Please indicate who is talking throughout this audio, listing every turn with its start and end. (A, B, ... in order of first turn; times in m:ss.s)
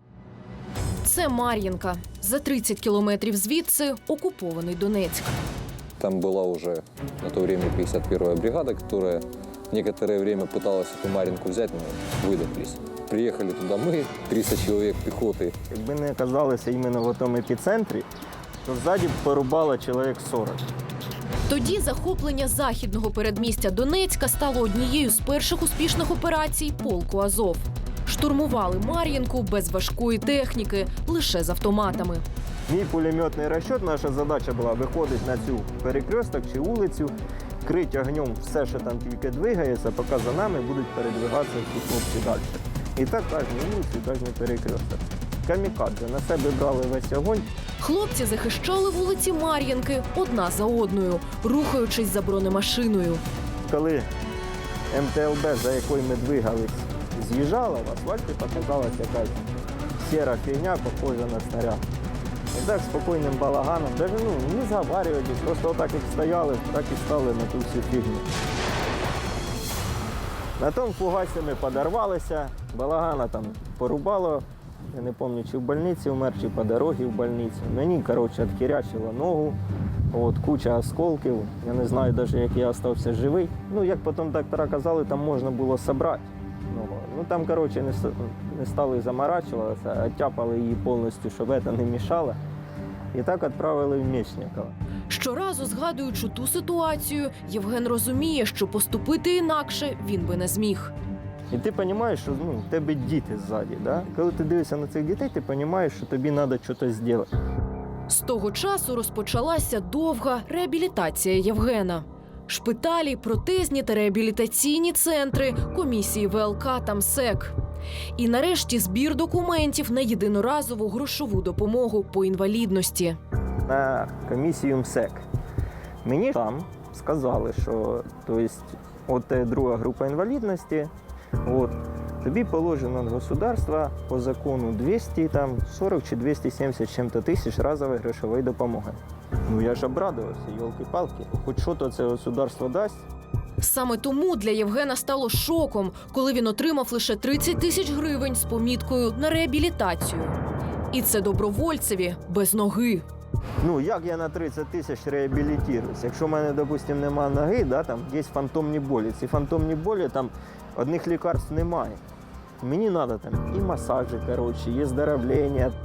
0:01.0-0:05.4 A
0:06.0-0:15.5 B
0:15.7-0:18.1 C
0:18.6-0:20.7 C
0:21.5-0:32.2 A
0:32.7-0:47.5 C
0:47.8-0:53.2 A
0:53.7-0:54.0 C
0:54.9-0:59.4 C
1:00.0-1:01.8 C
1:02.5-1:08.3 C
1:10.6-1:19.6 C
1:20.1-1:32.4 C
1:33.1-1:34.7 C
1:35.1-1:40.9 A
1:41.5-1:47.3 C
1:48.1-1:57.6 A
1:58.2-2:03.2 A
2:03.7-2:05.3 C
2:06.0-2:10.9 C
2:11.4-2:23.0 C
2:23.6-2:30.4 A
2:30.9-2:33.0 A
2:33.6-2:42.0 C
2:42.6-2:45.8 C